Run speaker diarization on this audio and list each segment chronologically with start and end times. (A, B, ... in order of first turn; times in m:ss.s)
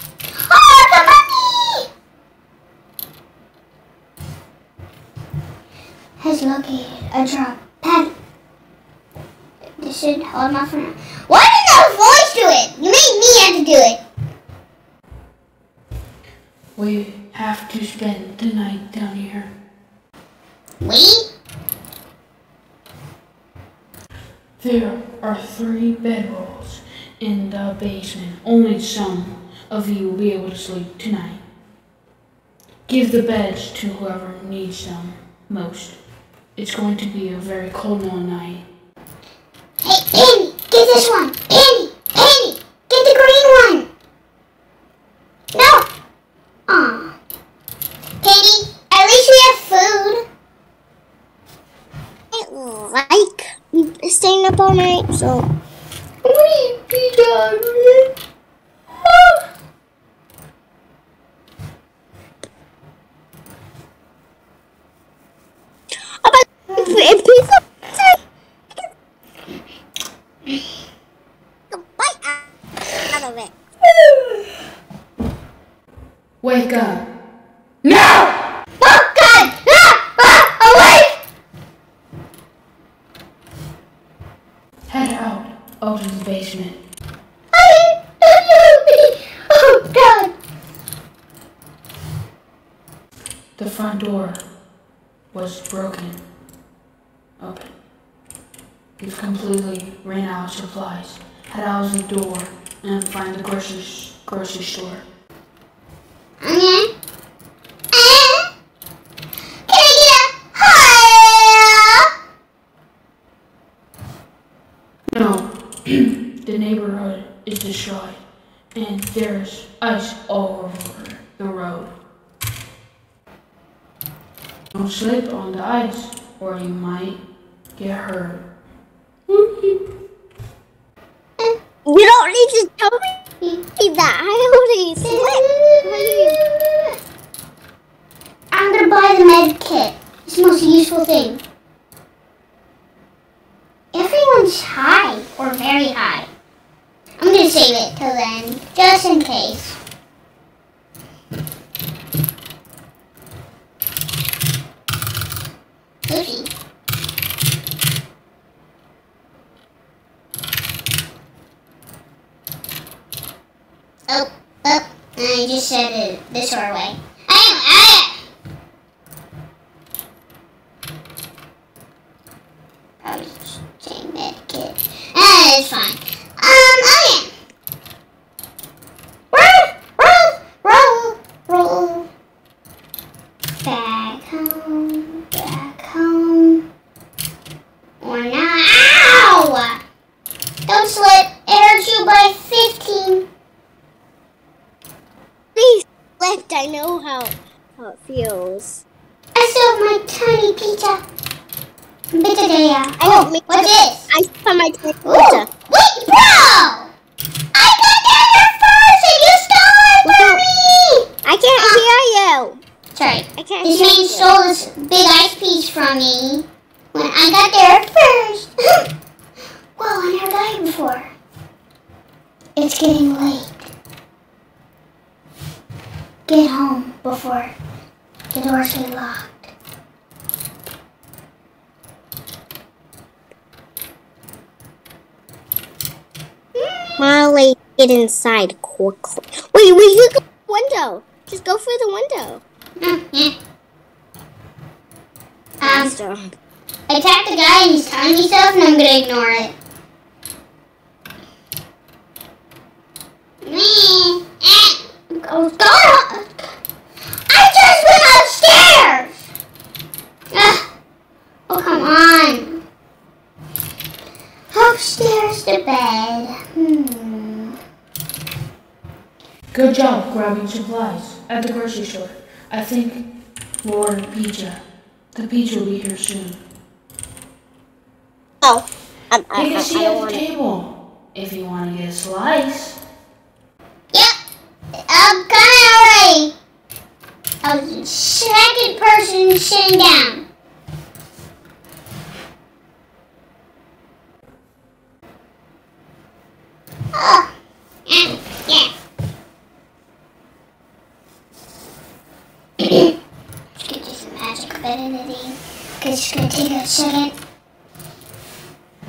0:00.5-0:01.9 A
0:06.2-0:08.1 A
0:09.8-0:14.0 A
0:16.8-0:19.5 B
0:20.8-0:21.2 A
0:24.6-0:31.4 B
0:32.9-0:36.0 B
0:36.6-0:38.6 B
0:39.8-0:43.9 A
0:45.6-0:45.8 A
0:46.7-0:47.1 A
0:48.2-0:50.2 A
0:52.3-0:55.5 C
0:56.2-0:58.0 B
1:06.2-1:08.2 C
1:06.7-1:07.0 A
1:11.7-1:12.5 C
1:13.0-1:13.5 C
1:16.4-1:17.0 B
1:17.8-1:18.4 B
1:18.8-1:21.2 A
1:24.9-1:26.8 B
1:27.5-1:30.3 A
1:33.6-1:34.4 B
1:35.3-1:36.2 B
1:37.4-1:37.7 B
1:39.0-1:45.0 B
1:46.4-1:46.9 A
1:47.9-1:48.5 A
1:49.7-1:52.1 A
1:55.1-1:58.2 B
1:58.7-2:01.9 B
2:04.7-2:07.2 B
2:07.8-2:08.4 B
2:09.3-2:09.8 B
2:11.8-2:13.1 C
2:13.8-2:16.4 C
2:15.0-2:16.9 A
2:18.5-2:21.4 A
2:23.9-2:26.3 A
2:27.2-2:29.8 A
2:36.1-2:36.5 A
2:44.1-2:48.2 A
2:53.0-2:57.3 A
2:59.3-3:02.1 A
3:03.6-3:06.6 A
3:08.0-3:09.8 A
3:10.7-3:13.2 A
3:15.6-3:18.8 C
3:19.4-3:21.0 A
3:22.1-3:24.0 A
3:23.0-3:25.5 C
3:25.0-3:26.9 A
3:27.5-3:31.8 A
3:30.0-3:30.4 C
3:31.2-3:32.6 C
3:33.0-3:38.8 A
3:33.4-3:34.3 C
3:39.8-3:41.1 A
3:42.6-3:43.7 A
3:46.3-3:47.5 A
3:48.3-3:49.5 A
3:56.6-3:57.0 A
3:57.0-4:02.4 C
4:02.8-4:03.3 A
4:05.6-4:05.9 A
4:05.6-4:06.3 C
4:06.9-4:09.5 A
4:13.4-4:16.4 A
4:17.3-4:19.2 A
4:20.3-4:20.6 A
4:21.5-4:22.6 A
4:24.5-4:27.6 A
4:29.5-4:33.0 B
4:33.6-4:36.4 B
4:38.4-4:40.2 C
4:39.3-4:42.8 B
4:44.9-4:46.3 A
4:47.4-4:50.2 A
4:56.9-4:57.3 A
4:57.9-4:58.7 A
5:02.6-5:02.9 A
5:03.6-5:07.2 A